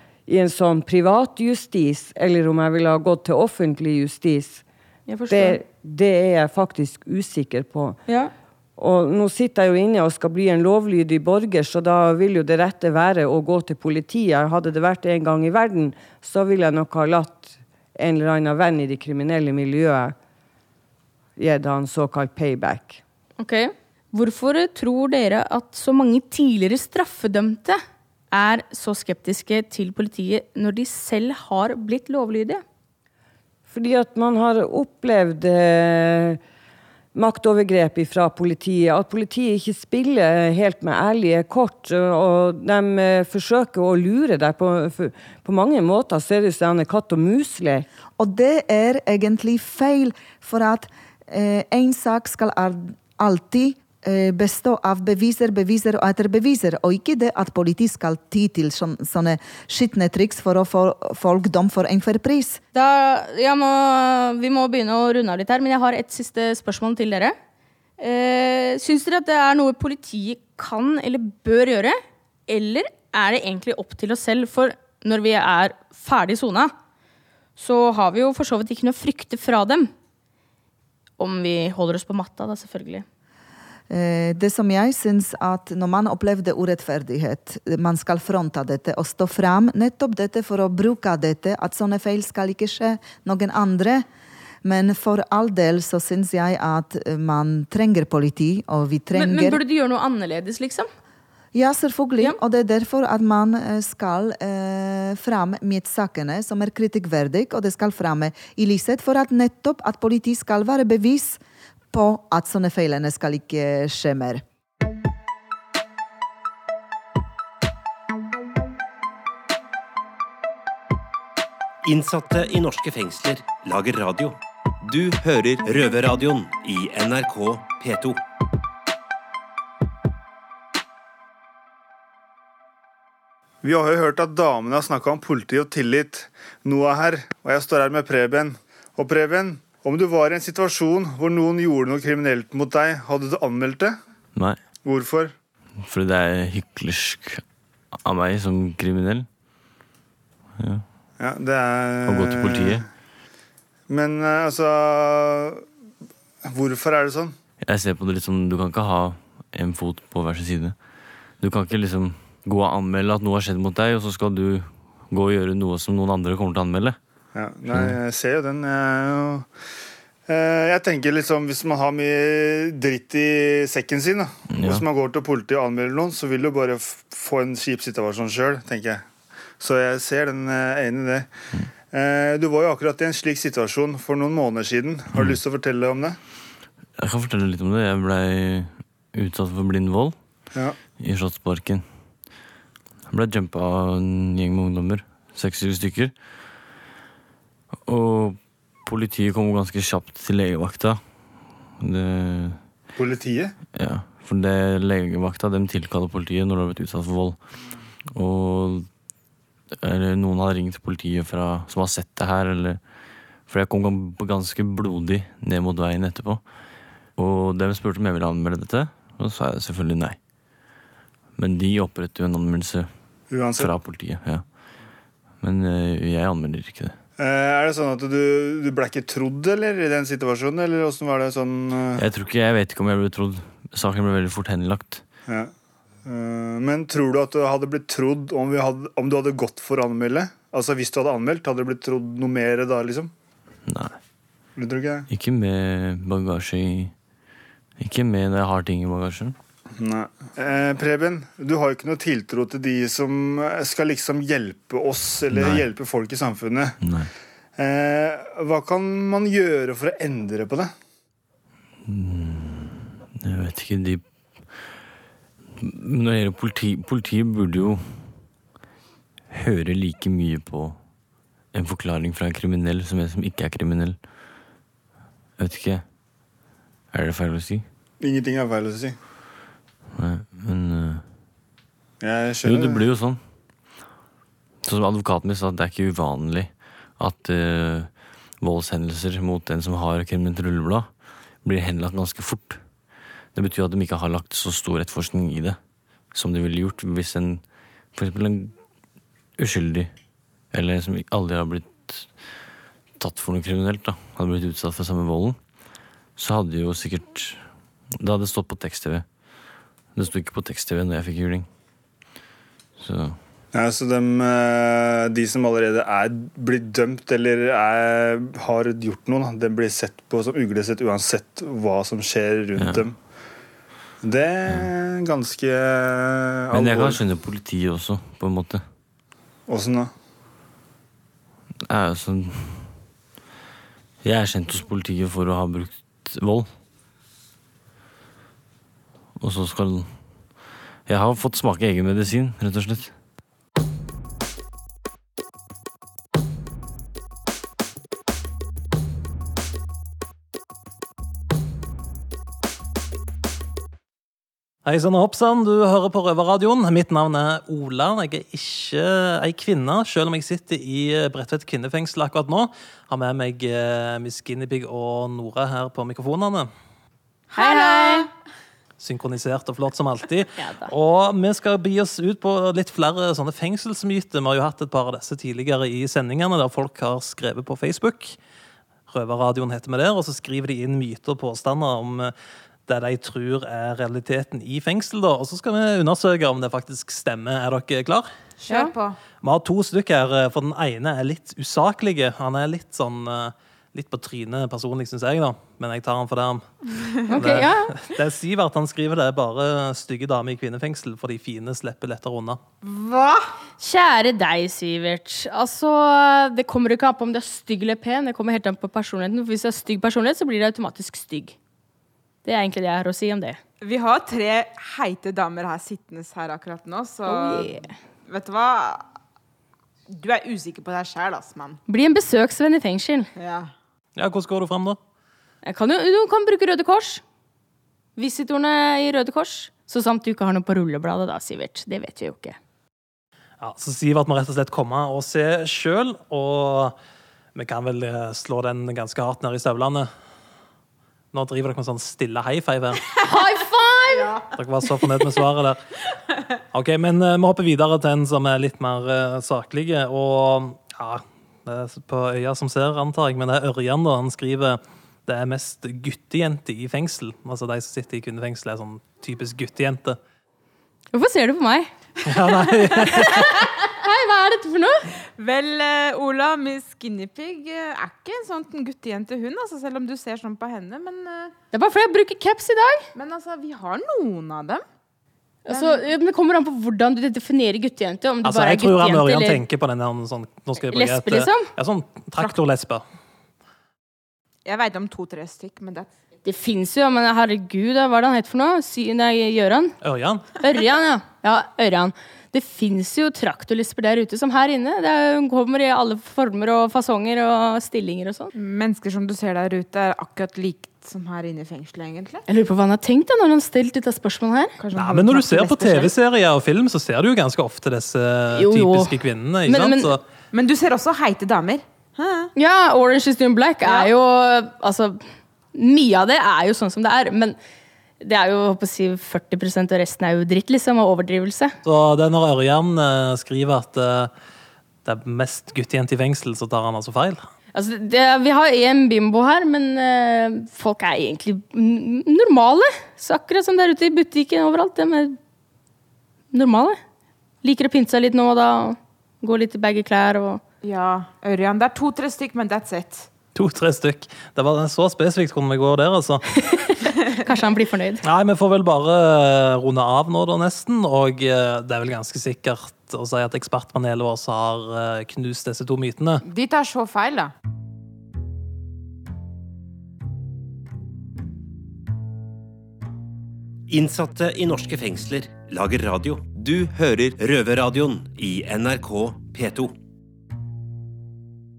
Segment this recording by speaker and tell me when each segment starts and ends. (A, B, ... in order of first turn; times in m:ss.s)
0:00.3-0:04.6 A
0:05.1-0:05.6 B
0:05.3-0:08.0 A
0:08.8-0:20.2 A
0:21.4-0:23.0 A
0:23.4-0:27.8 B
0:28.3-0:32.6 B
0:33.7-0:36.4 A
0:37.1-0:47.9 A
0:48.2-1:02.6 C
1:02.7-1:07.4 B
1:08.0-1:16.7 B
1:17.6-1:19.9 B
1:21.2-1:23.0 B
1:23.9-1:34.0 C
1:34.6-1:39.6 C
1:39.1-1:40.9 B
1:41.5-1:51.4 C
1:51.9-1:54.4 C
2:01.8-2:08.2 D
2:13.6-2:24.0 E
2:24.4-2:24.6 F
2:24.8-2:25.3 E
2:25.8-2:27.4 F
2:27.9-2:29.3 F
2:30.6-2:30.8 F
2:31.2-2:32.8 E
2:32.1-2:32.8 F
2:33.9-2:35.6 E
2:36.5-2:37.4 E
2:37.6-2:40.8 F
2:41.4-2:47.0 F
2:47.4-2:49.5 E
2:47.7-2:48.0 F
2:50.3-2:59.1 E
2:54.6-2:54.8 F
2:59.6-3:01.3 E
3:01.9-3:06.2 E
3:07.0-3:10.2 F
3:11.0-3:11.8 F
3:13.1-3:16.2 F
3:17.9-3:21.0 F
3:21.8-3:22.6 F
3:23.0-3:23.5 E
3:23.8-3:27.4 F
3:28.2-3:28.9 F
3:29.8-3:32.8 F
3:33.5-3:36.5 F
3:37.2-3:40.2 F
3:41.4-3:42.9 F
3:43.3-3:43.7 E
3:43.6-3:44.6 F
3:45.4-3:47.0 F
3:47.2-3:52.0 E
3:52.0-3:55.0 F
3:55.3-3:55.5 E
3:56.0-4:03.1 E
4:03.7-4:04.0 F
4:04.6-4:05.1 E
4:05.1-4:06.9 F
4:07.8-4:09.4 F
4:09.8-4:16.8 E
4:15.3-4:15.6 F
4:16.8-4:17.1 F
4:17.6-4:20.7 E
4:21.8-4:24.7 F
4:25.6-4:28.2 F
4:29.3-4:30.8 F
4:31.5-4:34.0 F
4:35.4-4:35.8 F
4:36.9-4:37.6 F
4:38.0-4:39.0 E
4:40.0-4:41.0 F
4:42.0-4:42.8 E
4:42.4-4:43.2 F
4:44.6-4:52.6 F
4:53.3-4:55.6 F
4:56.1-4:58.6 F
4:59.4-4:59.9 F
5:00.5-5:02.2 F
5:03.0-5:05.4 F
5:06.2-5:07.5 F
5:08.0-5:09.1 F
5:10.0-5:11.5 F
5:12.8-5:13.2 F
5:13.5-5:23.0 E
5:22.6-5:22.8 F
5:24.0-5:27.0 E
5:26.5-5:28.6 F
5:29.5-5:29.9 E
5:31.7-5:32.7 F
5:34.0-5:36.5 F
5:39.2-5:39.9 F
5:40.9-5:43.0 F
5:54.6-6:06.5 G
6:07.3-6:08.1 H
6:07.4-6:08.1 B
6:08.8-6:18.2 G
6:10.4-6:10.7 B
6:18.9-6:22.1 G
6:22.7-6:28.1 G
6:28.4-6:29.0 H
6:28.5-6:28.7 B
6:29.2-6:36.4 G
6:37.1-6:37.8 B
6:37.1-6:42.4 G
6:42.6-6:43.3 H
6:43.6-6:51.4 B
6:52.2-6:53.4 B
6:53.6-6:58.9 H
6:57.1-6:57.7 B
6:59.9-7:01.6 H
7:01.7-7:03.1 B
7:03.2-7:03.5 H
7:04.0-7:04.8 G
7:05.4-7:07.0 B
7:08.0-7:12.4 B
7:13.4-7:16.8 G
7:17.4-7:19.9 G
7:21.1-7:22.9 G
7:23.0-7:24.2 B
7:23.9-7:24.3 H
7:24.4-7:25.6 G
7:26.5-7:40.0 G
7:40.9-7:41.7 B
7:42.1-7:43.3 G
7:43.7-7:44.9 B
7:45.2-7:51.3 H
7:51.5-7:52.9 B
7:53.0-7:54.6 H
7:55.4-7:59.4 B
7:55.5-7:55.9 H
7:58.2-8:02.8 G
8:00.7-8:01.5 B
8:04.4-8:05.9 H
8:06.2-8:09.8 B
8:09.8-8:10.3 G
8:10.4-8:18.3 B
8:18.4-8:22.2 H
8:22.3-8:24.6 B
8:24.6-8:25.9 H
8:24.8-8:30.0 G
8:25.5-8:25.9 B
8:28.3-8:30.0 B
8:30.3-8:32.3 H
8:32.4-8:37.4 B
8:33.6-8:33.9 H
8:38.0-8:41.5 B
8:41.6-8:44.1 G
8:44.8-8:47.3 G
8:47.5-8:55.2 B
8:56.3-8:56.8 B
8:57.4-9:00.4 B
9:00.6-9:03.1 H
9:03.4-9:06.3 G
9:07.2-9:08.0 B
9:08.0-9:16.2 G
9:16.2-9:17.3 H
9:23.7-9:29.8 D